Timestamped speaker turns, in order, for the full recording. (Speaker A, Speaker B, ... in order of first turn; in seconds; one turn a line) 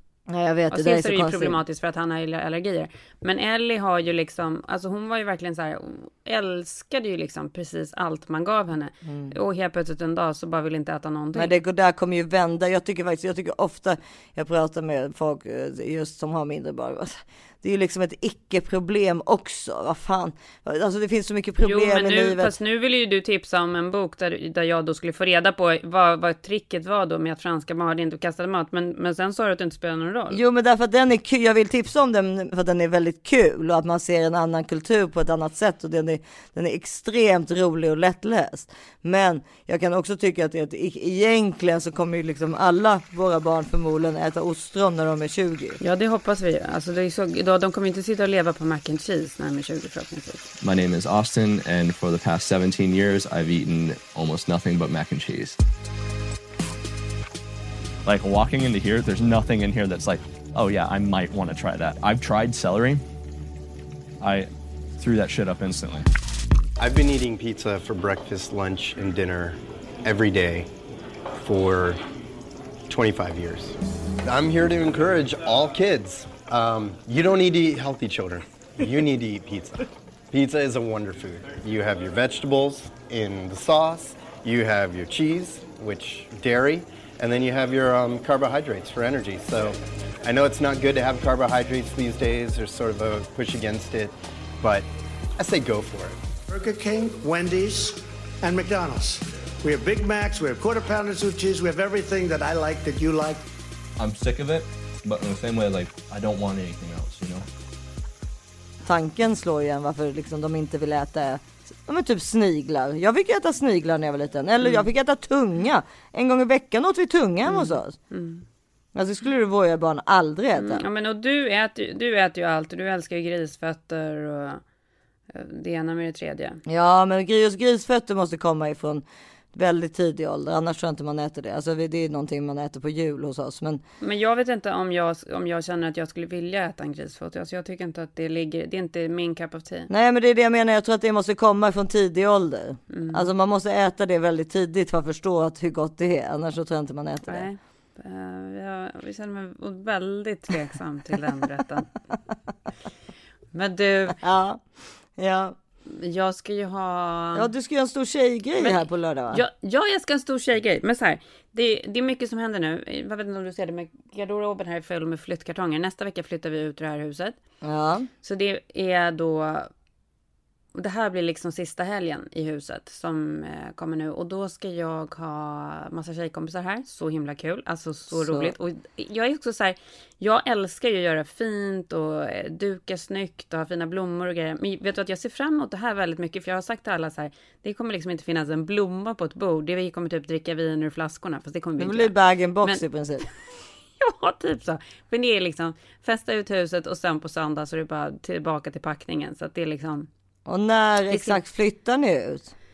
Speaker A: 0.3-1.6
Speaker B: 0.7-11.5
Speaker A: 9.0-9.3
Speaker A: 11.3-22.5
Speaker B: 21.6-30.4
Speaker A: 30.3-45.8
Speaker B: 45.8-50.5
Speaker C: 50.6-55.6
Speaker C: 58.0-63.0
Speaker C: 64.2-66.0
Speaker D: 66.8-70.7
Speaker D: 71.4-72.0
Speaker D: 72.9-96.2
Speaker E: 96.5-103.4
Speaker C: 104.0-107.5
Speaker A: 108.8-118.0
Speaker B: 114.6-114.8
Speaker B: 117.5-118.4
Speaker A: 118.9-120.8
Speaker B: 120.5-124.6
Speaker B: 125.3-126.6
Speaker A: 126.7-133.8
Speaker B: 134.0-139.9
Speaker A: 139.9-147.4
Speaker B: 142.9-143.3
Speaker B: 147.3-151.9
Speaker B: 153.5-154.2
Speaker A: 154.2-154.6
Speaker A: 155.2-155.6
Speaker B: 155.8-157.5
Speaker A: 157.3-159.4
Speaker B: 158.6-167.4
Speaker A: 167.6-168.1
Speaker B: 168.2-169.7
Speaker B: 170.7-192.8
Speaker A: 178.1-178.5
Speaker A: 191.8-193.2
Speaker B: 194.0-200.1
Speaker A: 200.4-202.5
Speaker B: 201.1-201.4